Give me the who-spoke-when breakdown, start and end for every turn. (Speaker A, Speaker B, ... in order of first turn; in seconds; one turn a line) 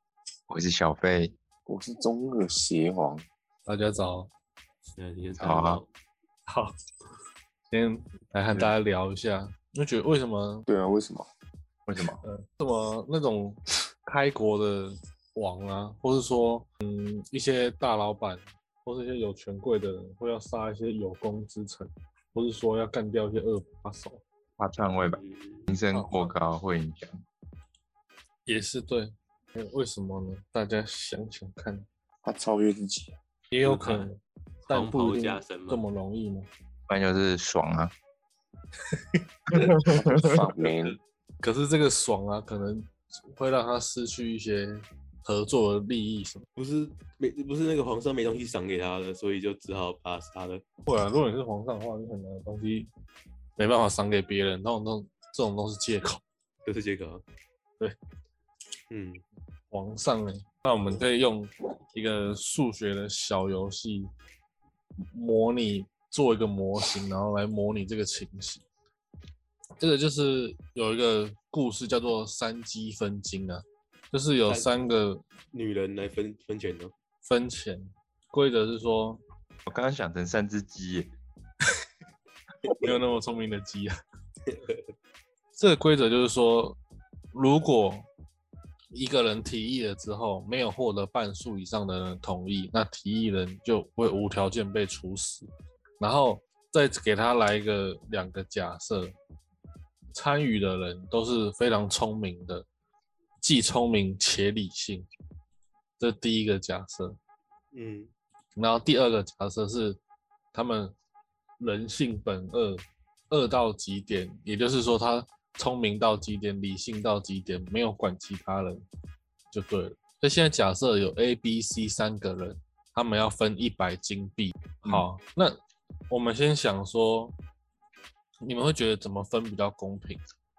Speaker A: 0.5-1.3
Speaker B: 1.7-3.3
Speaker C: 3.7-4.3
Speaker D: 5.0-5.9
Speaker A: 5.4-5.8
Speaker C: 6.5-6.7
Speaker C: 7.7-10.7
Speaker B: 10.7-11.3
Speaker A: 11.9-12.2
Speaker C: 12.2-24.2
Speaker A: 24.6-27.2
Speaker D: 25.0-25.7
Speaker C: 25.9-26.3
Speaker C: 28.5-31.9
Speaker B: 32.2-33.1
Speaker C: 33.5-36.5
Speaker D: 33.6-34.1
Speaker D: 34.7-35.8
Speaker A: 36.9-37.9
Speaker A: 39.6-40.3
Speaker B: 39.9-41.0
Speaker D: 40.5-40.9
Speaker C: 41.4-46.5
Speaker D: 46.6-50.6
Speaker C: 50.9-52.9
Speaker C: 53.6-56.2
Speaker D: 56.6-57.2
Speaker D: 58.9-59.2
Speaker C: 59.7-64.1
Speaker C: 65.1-68.7
Speaker C: 69.8-75.2
Speaker D: 75.5-76.9
Speaker C: 77.2-79.2
Speaker A: 79.7-81.1
Speaker C: 82.7-84.0
Speaker D: 84.5-84.9
Speaker C: 85.6-86.8
Speaker C: 87.3-88.1
Speaker C: 88.9-95.5
Speaker C: 96.0-99.2
Speaker C: 100.1-102.7
Speaker C: 103.4-105.1
Speaker C: 106.0-107.2
Speaker D: 107.7-108.1
Speaker C: 108.6-110.0
Speaker C: 110.5-110.9
Speaker C: 111.6-118.8
Speaker C: 119.5-125.6
Speaker C: 126.1-127.3
Speaker C: 128.4-130.2